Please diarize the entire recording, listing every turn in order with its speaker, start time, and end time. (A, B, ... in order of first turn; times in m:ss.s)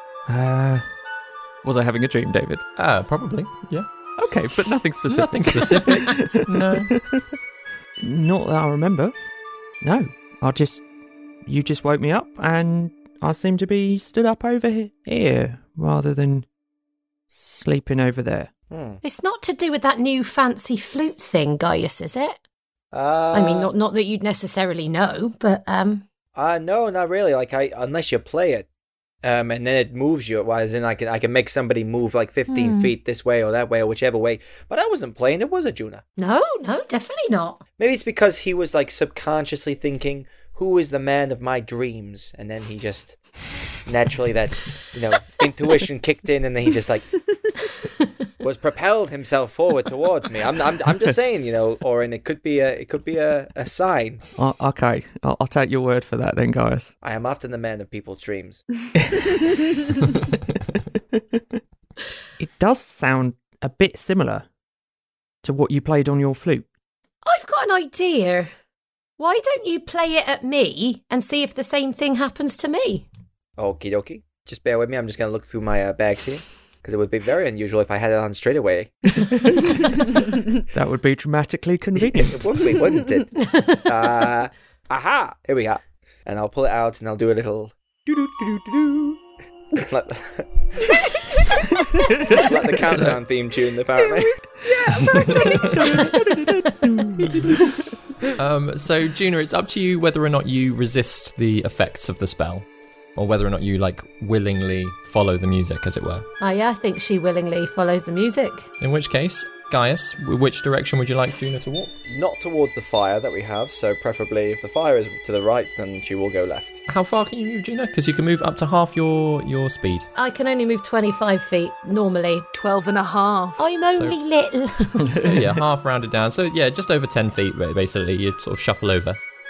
0:00.3-0:00.8 A
0:01.6-0:02.6 A
0:02.8-0:03.9 B
0:04.2-0:07.3 A
0:05.1-0:07.0 B
0:08.0-0:09.1 A
0:09.8-0:10.8 A
0:11.4-0:16.5 A
0:17.3-0:18.5 A
0:18.7-0:19.0 C
0:19.0-0:22.4 D
0:22.9-0:23.7 C
0:23.3-0:26.0 D
0:26.4-0:28.7 C
0:29.2-0:36.0 C
0:32.5-0:32.9 D
0:36.2-0:37.6 D
0:37.8-0:43.2 C
0:43.9-0:47.3 C
0:48.4-0:54.2 C
0:54.4-0:56.9 A
0:57.0-0:58.6 C
0:59.0-0:59.3 A
1:02.4-1:04.5 A
1:05.4-1:06.6 A
1:07.3-1:08.5 D
1:09.2-1:13.1 D
1:13.6-1:19.2 C
1:20.7-1:22.5 A
1:22.0-1:29.2 C
1:29.7-1:30.7 C
1:32.1-1:33.1 A
1:32.3-1:34.4 C
1:32.9-1:33.2 B
1:34.0-1:36.2 E
1:35.6-1:37.8 A
1:38.4-1:46.3 B
1:46.4-1:48.7 D
1:48.8-1:51.9 B
1:52.1-1:56.8 C
1:56.9-2:00.1 B
2:00.2-2:02.5 D
2:02.5-2:03.6 E
2:03.6-2:05.4 D
2:05.2-2:05.5 A
2:05.3-2:09.2 B